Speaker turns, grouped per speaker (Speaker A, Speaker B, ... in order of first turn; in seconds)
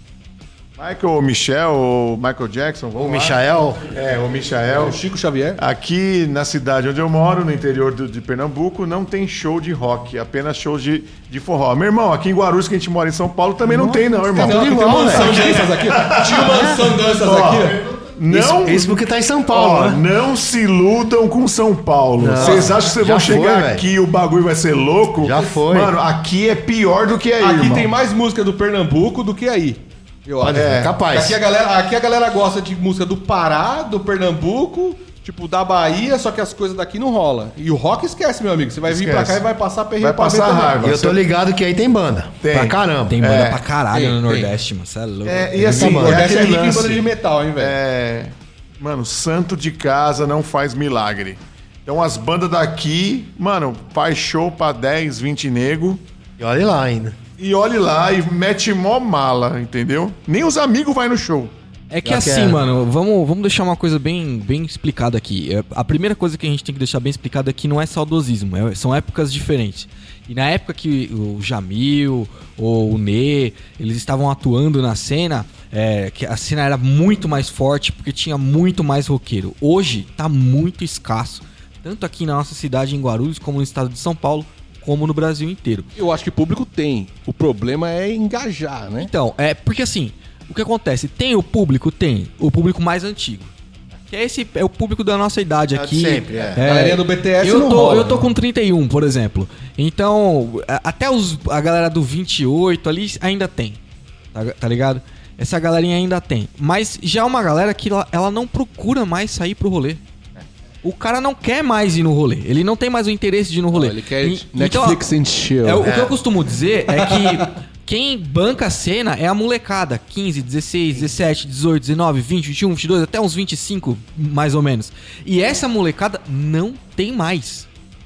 Speaker A: 0.8-3.4, 3.9-5.0, 5.6-27.9, 30.5-30.9, 38.9-39.4, 40.0-41.2, 42.4-43.6, 45.2-47.0, 47.6-56.0, 57.4-61.5
Speaker B: 3.0-3.9, 13.6-15.6, 16.5-16.9, 18.3-20.0, 22.2-23.9, 25.2-25.9, 30.4-31.4, 40.8-43.3, 45.6-46.3, 56.4-57.1, 62.0-62.6, 95.7-96.6, 115.8-116.2
Speaker C: 4.7-5.6, 14.2-17.8, 22.4-22.8, 27.4-41.0, 43.9-44.5, 45.5-47.7, 86.0-89.1, 96.5-98.3, 113.7-115.9, 116.9-117.5
Speaker D: 43.1-45.6, 61.9-85.9, 88.9-93.5, 94.1-103.8, 104.3-110.0, 110.8-115.0, 115.6-127.7